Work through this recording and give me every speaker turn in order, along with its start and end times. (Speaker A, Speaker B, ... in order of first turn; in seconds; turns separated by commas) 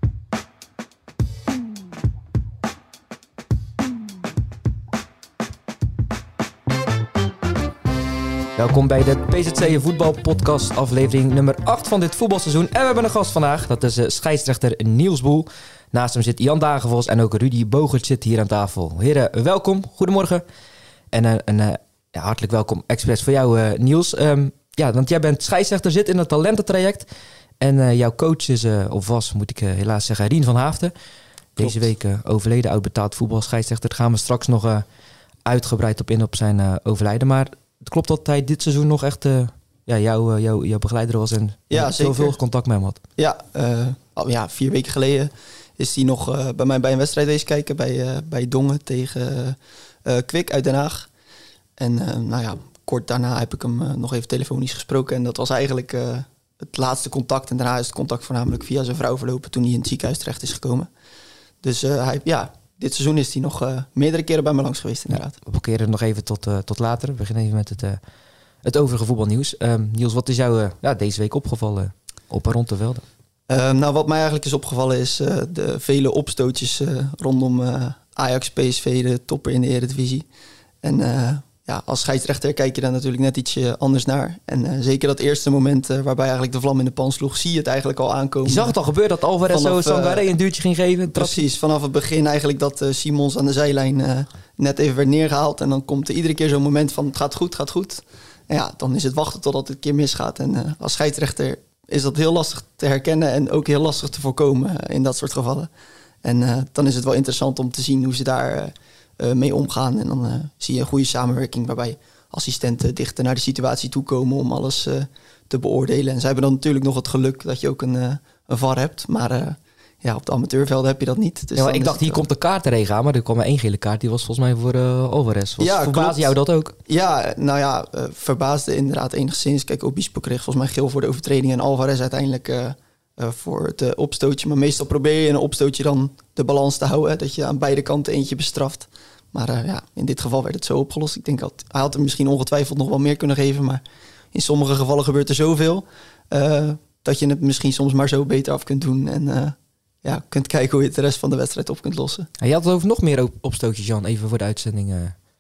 Speaker A: 8.6-20.4, Speaker A: 21.1-27.1, Speaker A: 27.6-30.9, Speaker A: 31.6-34.8, Speaker B: 31.6-31.9, Speaker A: 35.5-43.0, Speaker B: 41.7-42.4, Speaker B: 43.2-51.1, Speaker B: 51.8-60.9, Speaker B: 61.6-65.3, Speaker A: 65.4-68.0, Speaker A: 68.6-73.0, Speaker B: 73.5-80.2, Speaker B: 80.8-88.7, Speaker A: 88.4-91.4, Speaker B: 89.5-90.3, Speaker B: 91.1-105.7, Speaker B: 106.2-122.2, Speaker A: 121.5-126.8, Speaker B: 125.6-126.3, Speaker B: 126.8-143.8, Speaker B: 144.3-152.3, Speaker A: 152.4-155.1